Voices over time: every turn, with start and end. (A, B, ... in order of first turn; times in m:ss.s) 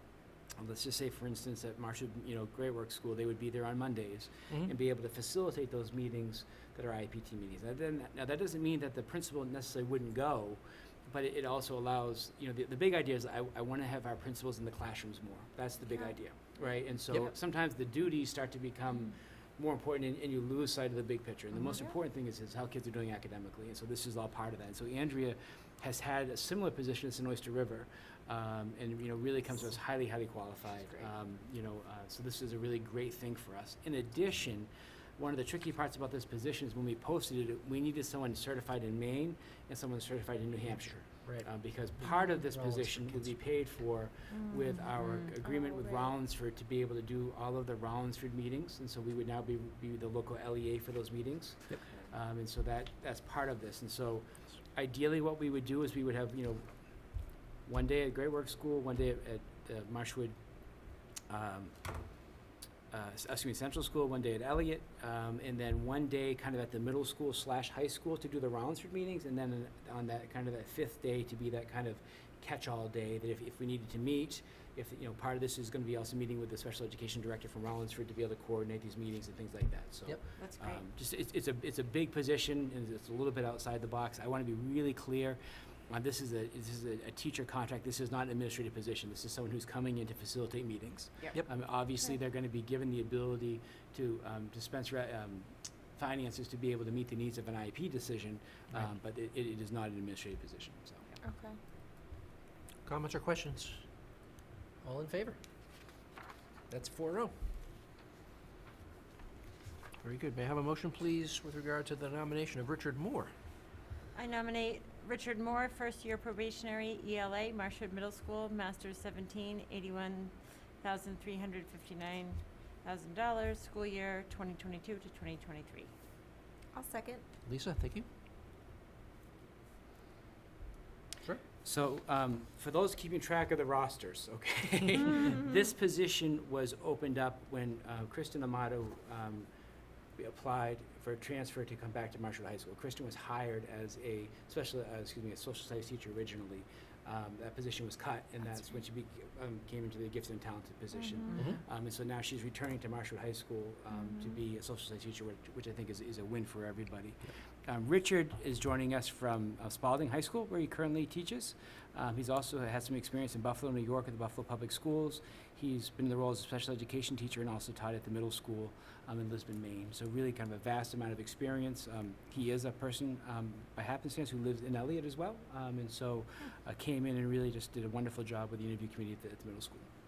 0:00.6-1:00.4 A
0:15.8-0:16.2 B
0:41.1-0:43.4 C
0:45.4-0:46.1 B
1:01.3-1:02.0 A
1:02.9-1:41.2 A
1:20.4-1:20.8 D
1:41.2-1:41.6 B
1:42.8-1:43.8 C
1:44.8-1:45.4 C
1:46.7-1:47.3 C
1:50.0-1:53.3 C
1:54.1-2:05.9 D
2:06.7-2:07.2 B
2:07.4-2:08.1 C
2:11.6-2:19.5 A
2:20.2-2:59.9 A
2:30.9-2:31.5 B
2:31.3-2:31.6 C
2:34.0-2:34.4 B